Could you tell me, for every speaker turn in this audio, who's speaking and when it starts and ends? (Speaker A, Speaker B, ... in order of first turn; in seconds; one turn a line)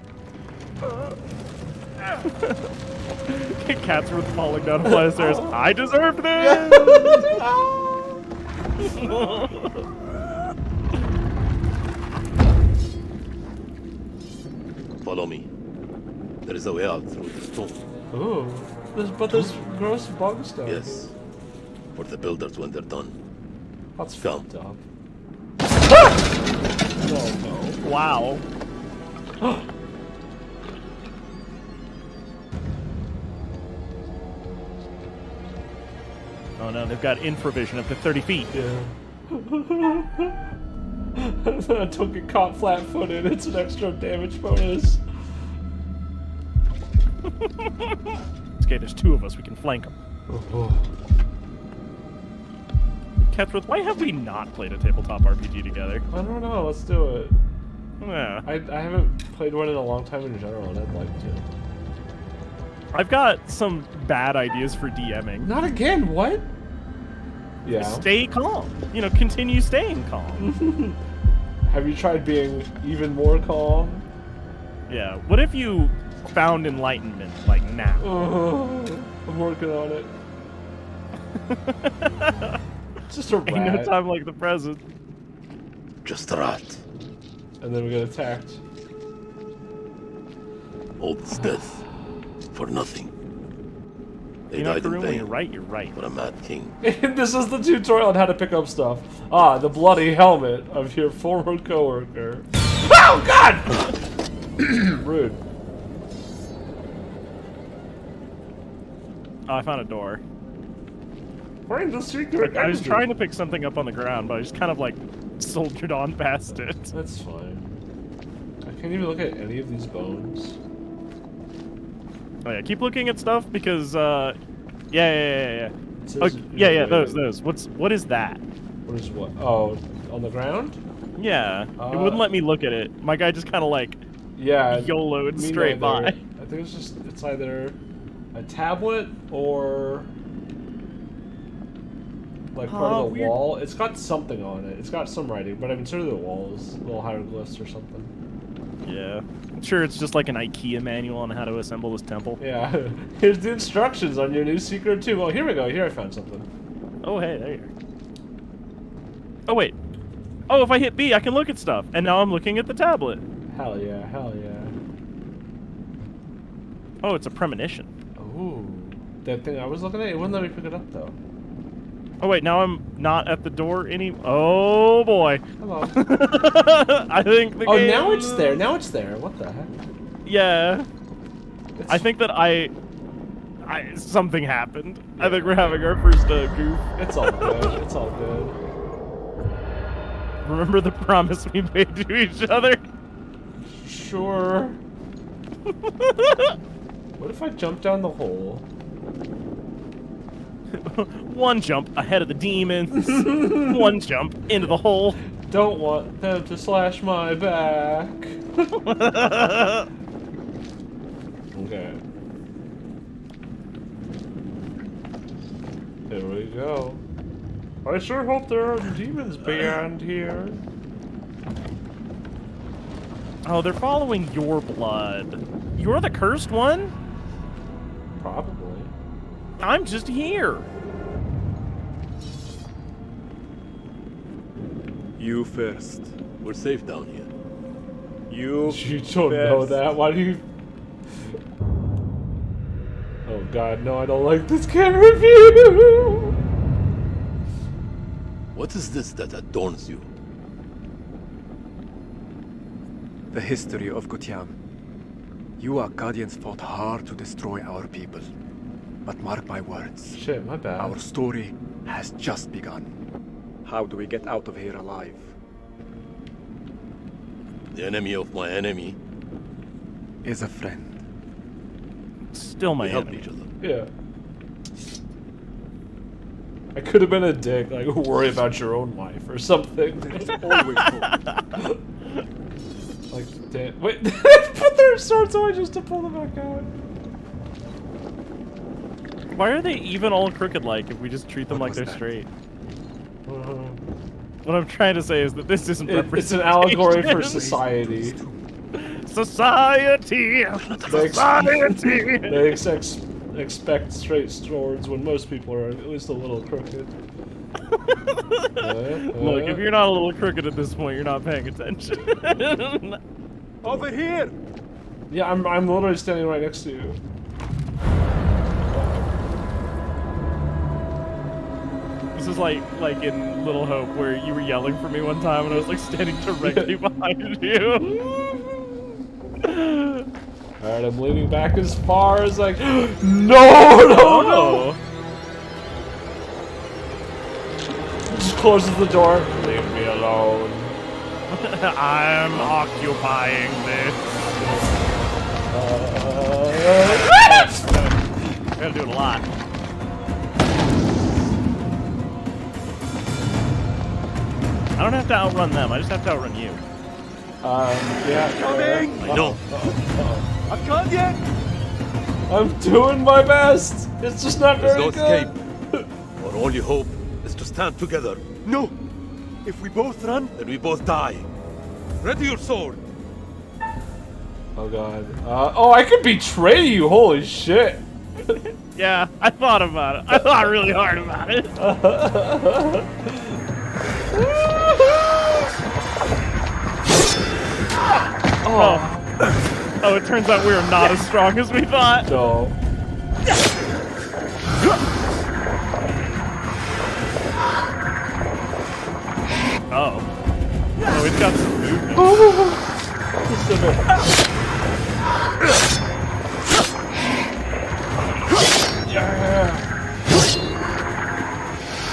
Speaker A: 2.2-2.6
Speaker A: 3.2-7.4
Speaker B: 4.9-5.6
Speaker B: 6.4-7.8
Speaker A: 8.8-9.8
Speaker C: 15.0-15.5
Speaker C: 16.4-17.8
Speaker B: 18.1-21.1
Speaker C: 20.6-21.1
Speaker C: 21.9-23.2
Speaker B: 24.0-24.8
Speaker C: 24.2-24.5
Speaker B: 27.0-27.8
Speaker A: 27.8-28.4
Speaker B: 29.4-29.7
Speaker A: 36.6-38.5
Speaker B: 38.5-40.4
Speaker B: 41.1-45.0
Speaker A: 47.2-49.9
Speaker B: 50.3-50.9
Speaker A: 53.3-56.0
Speaker B: 56.1-57.4
Speaker A: 58.0-58.5
Speaker B: 58.5-61.5
Speaker A: 62.9-65.5
Speaker B: 65.4-66.5
Speaker B: 67.6-68.1
Speaker A: 67.7-70.5
Speaker B: 70.4-71.0
Speaker B: 71.7-74.1
Speaker A: 74.9-78.2
Speaker B: 78.0-80.1
Speaker A: 81.4-82.6
Speaker B: 83.1-84.0
Speaker A: 83.5-84.8
Speaker C: 86.0-86.8
Speaker B: 87.6-88.6
Speaker C: 91.0-91.8
Speaker C: 92.5-93.1
Speaker C: 94.5-95.3
Speaker A: 94.5-96.0
Speaker C: 95.9-96.8
Speaker B: 96.8-104.0
Speaker B: 104.6-105.4
Speaker A: 109.5-110.2
Speaker B: 111.7-113.1
Speaker A: 112.4-116.9
Speaker B: 116.9-117.8
Speaker B: 118.6-120.6
Speaker A: 122.4-124.4
Speaker A: 124.9-128.4
Speaker B: 126.0-127.3
Speaker B: 128.9-130.8
Speaker A: 131.2-134.0
Speaker B: 131.8-132.3
Speaker B: 134.4-137.8
Speaker A: 134.7-136.2
Speaker B: 138.3-140.1
Speaker B: 142.5-148.1
Speaker A: 142.7-143.5
Speaker A: 148.8-152.4
Speaker B: 152.4-156.5
Speaker A: 157.0-157.7
Speaker A: 159.5-159.8
Speaker A: 160.5-163.2
Speaker B: 163.5-164.8
Speaker A: 167.0-167.9
Speaker B: 168.2-171.2
Speaker A: 172.2-178.6
Speaker B: 175.6-176.1
Speaker B: 177.6-179.7
Speaker A: 180.2-180.9
Speaker B: 181.8-182.1
Speaker A: 181.9-182.7
Speaker A: 183.6-187.7
Speaker B: 185.2-185.9
Speaker B: 187.0-188.6
Speaker A: 190.4-192.8
Speaker B: 193.8-194.8
Speaker A: 195.7-196.6
Speaker B: 197.2-198.7
Speaker A: 200.7-205.2
Speaker B: 203.3-203.6
Speaker B: 205.5-208.7
Speaker A: 208.8-209.9
Speaker B: 211.5-212.0
Speaker B: 216.1-217.0
Speaker B: 217.8-220.6
Speaker A: 223.4-226.9
Speaker B: 228.2-228.9
Speaker A: 229.6-230.7
Speaker D: 235.2-236.1
Speaker C: 236.4-237.3
Speaker D: 238.3-239.9
Speaker B: 238.7-240.4
Speaker B: 243.3-246.4
Speaker C: 248.5-250.1
Speaker D: 253.3-254.6
Speaker D: 255.6-258.3
Speaker D: 259.1-260.2
Speaker B: 260.1-261.0
Speaker D: 260.8-262.9
Speaker D: 263.6-265.3
Speaker C: 267.7-269.0
Speaker D: 270.2-271.0
Speaker A: 272.3-273.3
Speaker C: 272.8-273.5
Speaker B: 273.6-273.9
Speaker B: 276.7-280.5
Speaker D: 280.0-281.1
Speaker A: 280.8-281.6
Speaker B: 283.1-286.7
Speaker A: 289.3-292.3
Speaker D: 291.5-292.2
Speaker B: 293.3-293.8
Speaker A: 294.4-297.4
Speaker B: 295.9-298.2
Speaker D: 296.8-298.5
Speaker A: 298.8-302.6
Speaker D: 300.6-301.2
Speaker B: 300.9-306.9
Speaker A: 307.7-313.0
Speaker B: 308.6-309.7
Speaker D: 313.6-314.4
Speaker B: 315.1-317.0
Speaker A: 322.1-328.3
Speaker B: 326.4-326.8
Speaker A: 329.4-330.1
Speaker B: 330.6-334.7
Speaker A: 333.9-334.8
Speaker B: 338.1-340.8
Speaker A: 341.3-344.0
Speaker B: 344.4-344.7
Speaker B: 345.5-347.6
Speaker A: 346.8-348.0
Speaker A: 348.6-349.2
Speaker A: 354.8-356.6
Speaker B: 357.4-360.3
Speaker D: 358.1-359.8
Speaker C: 359.0-359.4
Speaker D: 360.5-361.2
Speaker B: 362.3-365.9
Speaker C: 364.6-365.3
Speaker C: 366.2-368.2
Speaker D: 368.4-368.8
Speaker D: 369.4-370.3
Speaker C: 370.4-371.3
Speaker C: 372.0-372.8
Speaker B: 374.6-378.4
Speaker A: 378.3-381.6
Speaker B: 381.6-383.4
Speaker B: 384.1-385.3
Speaker B: 388.4-389.1
Speaker A: 388.5-388.9
Speaker A: 389.8-392.1
Speaker B: 392.1-392.6
Speaker A: 399.7-400.1
Speaker A: 400.8-402.1
Speaker B: 401.9-402.6
Speaker B: 403.2-403.9
Speaker B: 408.9-409.7